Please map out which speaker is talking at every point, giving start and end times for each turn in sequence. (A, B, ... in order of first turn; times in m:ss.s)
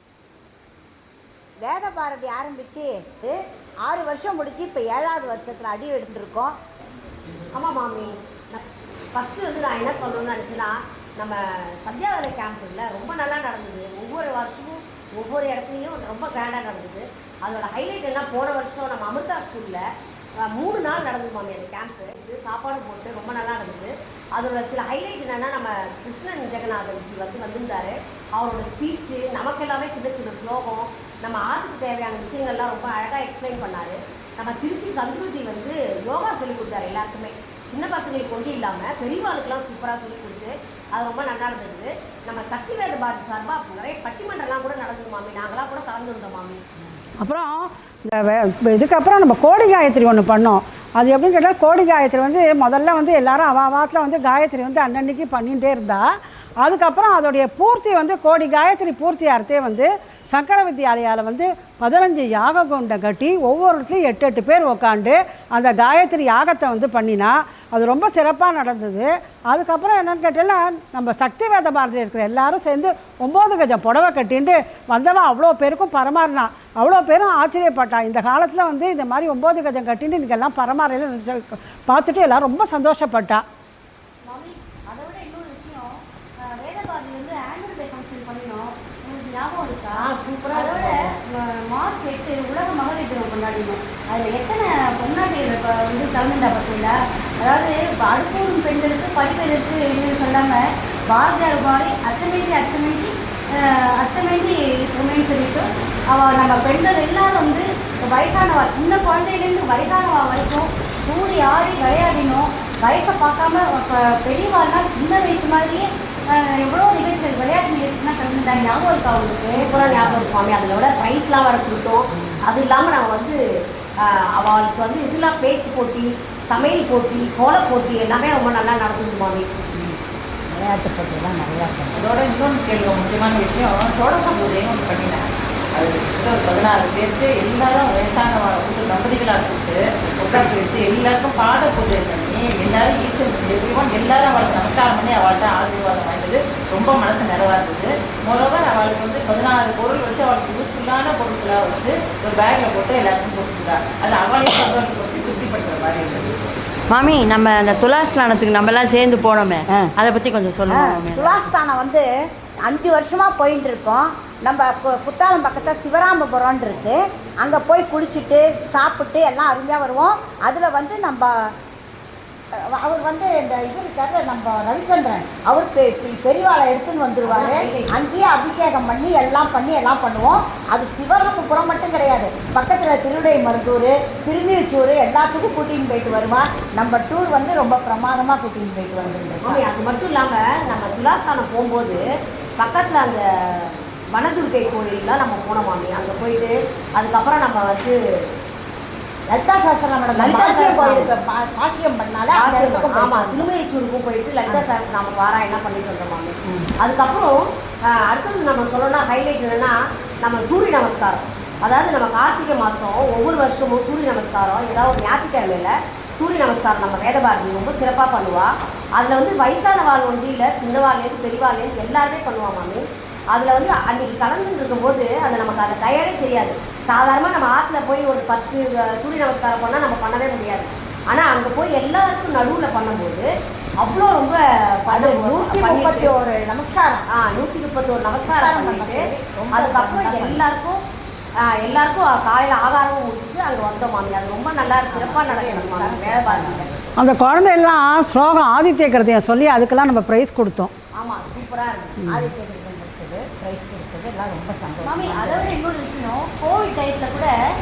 0:01.6-0:06.6 A
0:07.5-0:19.8 B
0:20.4-0:46.6 B
0:47.2-0:56.0 C
0:56.6-1:23.4 C
1:24.2-1:59.8 D
1:30.0-1:31.2 B
1:59.5-2:03.4 B
2:04.0-2:09.5 B
2:10.5-2:12.0 A
2:11.9-2:36.3 E
2:36.9-2:41.5 F
2:40.7-2:42.0 A
2:42.6-2:51.3 A
2:52.5-3:09.6 A
2:57.2-2:57.9 B
3:09.4-3:12.0 B
3:12.6-3:18.0 B
3:19.3-3:23.4 A
3:20.2-3:21.1 B
3:22.3-3:53.3 B
3:53.8-3:56.1 B
3:54.9-3:57.0 A
3:57.1-4:00.8 B
3:58.3-4:00.4 A
4:01.4-4:06.8 B
4:04.9-4:06.9 A
4:07.0-4:10.7 C
4:11.0-4:12.0 B
4:12.0-4:12.3 C
4:12.1-4:15.5 A
4:14.8-4:17.3 D